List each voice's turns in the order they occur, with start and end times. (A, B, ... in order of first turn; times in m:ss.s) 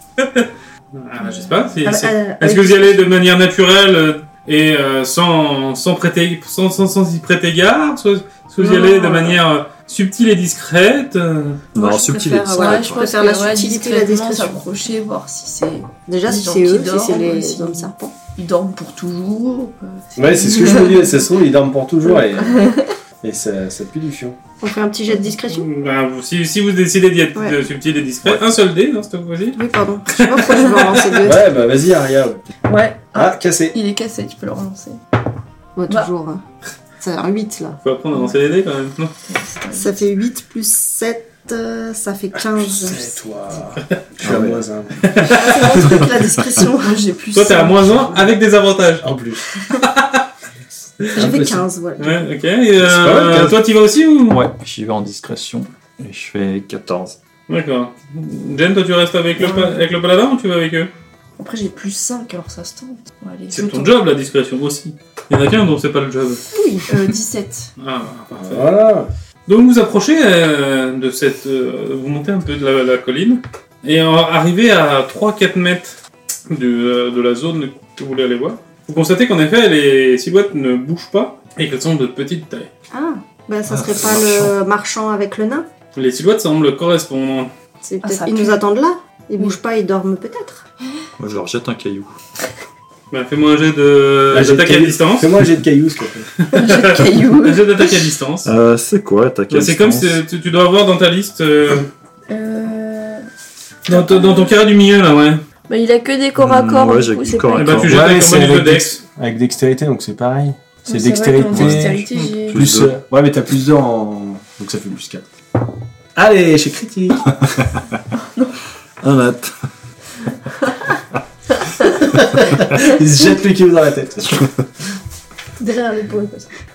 0:00.2-0:11.6 A
0:01.8-0:03.0 B
0:08.6-0:09.4 B
0:11.7-0:14.6 B
0:11.8-0:13.0 C
0:12.5-0:21.1 D
0:16.1-0:18.2 B
0:20.2-0:24.4 E
0:22.4-0:22.9 D
0:24.6-0:25.7 B
0:25.4-0:29.6 A
0:29.6-0:31.4 B
0:30.1-0:31.2 A
0:31.2-0:32.4 E
0:32.7-0:35.0 D
0:33.2-0:33.8 E
0:35.8-0:36.4 B
0:37.0-0:37.8 B
0:37.8-0:39.1 A
0:39.2-0:40.0 D
0:39.7-0:43.2 B
0:42.4-0:45.1 E
0:44.2-0:44.7 C
0:45.0-0:45.6 A
0:45.3-0:47.0 B
0:45.4-0:48.3 D
0:47.3-0:49.1 A
0:49.0-0:49.4 E
0:49.7-0:50.3 A
0:51.1-0:51.6 E
0:51.2-0:52.2 B
0:52.0-0:54.4 A
0:52.8-0:53.6 E
0:54.3-0:57.2 C
0:57.5-1:00.9 A
0:59.4-0:59.8 D
1:01.4-1:03.9 D
1:03.5-1:06.4 A
1:06.5-1:06.9 B
1:06.9-1:07.7 D
1:07.8-1:08.8 A
1:08.3-1:09.1 E
1:09.5-1:16.0 A
1:16.5-1:22.7 A
1:22.9-1:25.7 B
1:23.7-1:24.5 C
1:26.0-1:27.5 A
1:27.8-1:30.6 B
1:28.0-1:28.6 D
1:31.2-1:32.1 C
1:33.1-1:35.3 A
1:34.3-1:36.3 E
1:36.4-1:38.5 A
1:36.5-1:37.9 D
1:38.4-1:40.2 C
1:39.5-1:41.9 A
1:42.3-1:43.2 D
1:43.9-1:45.4 A
1:43.9-1:44.6 D
1:45.7-1:47.9 D
1:46.4-1:48.0 C
1:47.6-1:49.0 A
1:47.8-1:55.2 E
1:50.9-1:52.6 D
1:51.5-1:53.0 C
1:56.2-1:57.4 E
1:58.2-1:58.6 D
1:59.0-1:59.5 C
2:02.0-2:04.5 E
2:05.6-2:06.5 D